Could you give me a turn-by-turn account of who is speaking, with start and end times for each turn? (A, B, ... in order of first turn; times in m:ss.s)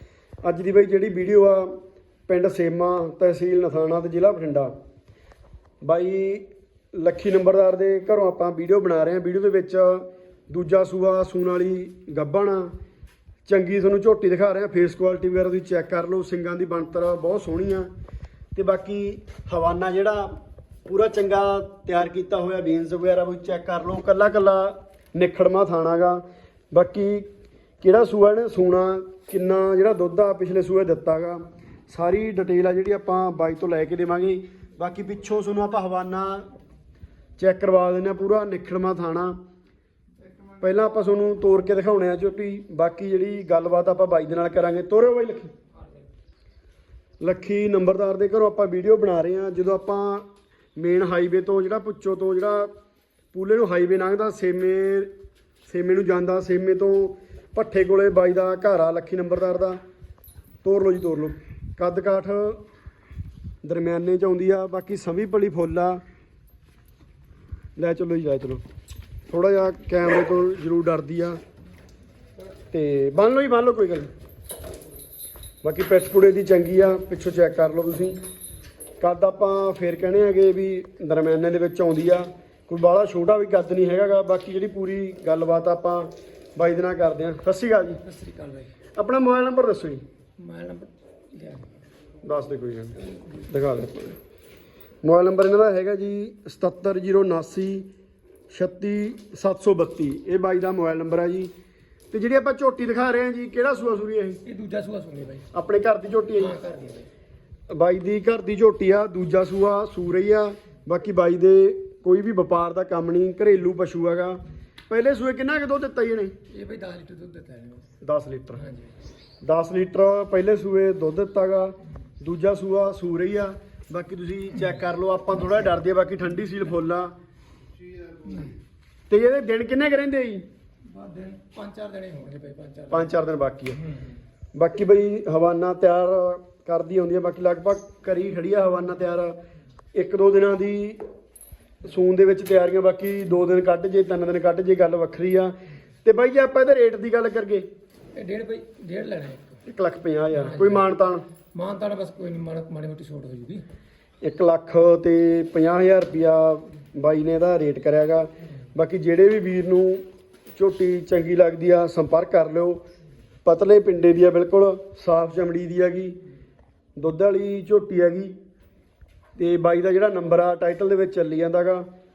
0:00.4-0:01.7 A
0:02.3-0:04.7 A
0:05.8-0:12.7 A
0:13.4-0:17.9 A
0:18.5-0:27.3 A
0:27.8-0:36.5 A
0:37.4-0:39.4 A
0:40.6-0:45.5 A
0:47.2-0:52.7 A
0:53.3-0:55.1 A
0:55.6-0:59.8 A
1:00.6-1:02.6 A
1:03.6-1:06.0 A
1:07.8-1:08.6 A
1:09.3-1:11.4 A
1:12.7-1:14.1 A
1:15.6-1:18.2 A
1:19.0-1:28.0 A
1:28.0-1:28.7 B
1:28.9-1:30.0 A
1:30.4-1:31.8 B
1:32.2-1:34.2 A
1:35.0-1:37.9 A
1:38.5-1:41.5 A
1:42.1-1:44.4 A
1:44.4-1:45.5 B
1:45.5-1:46.5 A
1:46.4-1:47.1 B
1:47.7-1:56.4 A
1:56.5-1:57.8 B
1:58.0-1:58.6 A
1:58.6-1:58.9 B
1:59.4-2:07.1 A
2:08.2-2:08.5 B
2:09.1-2:10.4 A
2:10.9-2:13.1 B
2:12.9-2:13.8 A
2:14.5-2:19.4 A
2:19.9-2:21.0 A
2:21.8-2:27.6 A
2:28.1-2:29.6 B
2:29.6-2:31.2 A
2:30.3-2:30.8 B
2:31.5-2:33.6 B
2:34.2-2:40.0 A
2:40.5-2:42.8 A
2:43.4-2:46.2 A
2:47.0-2:48.4 A
2:49.4-2:51.9 A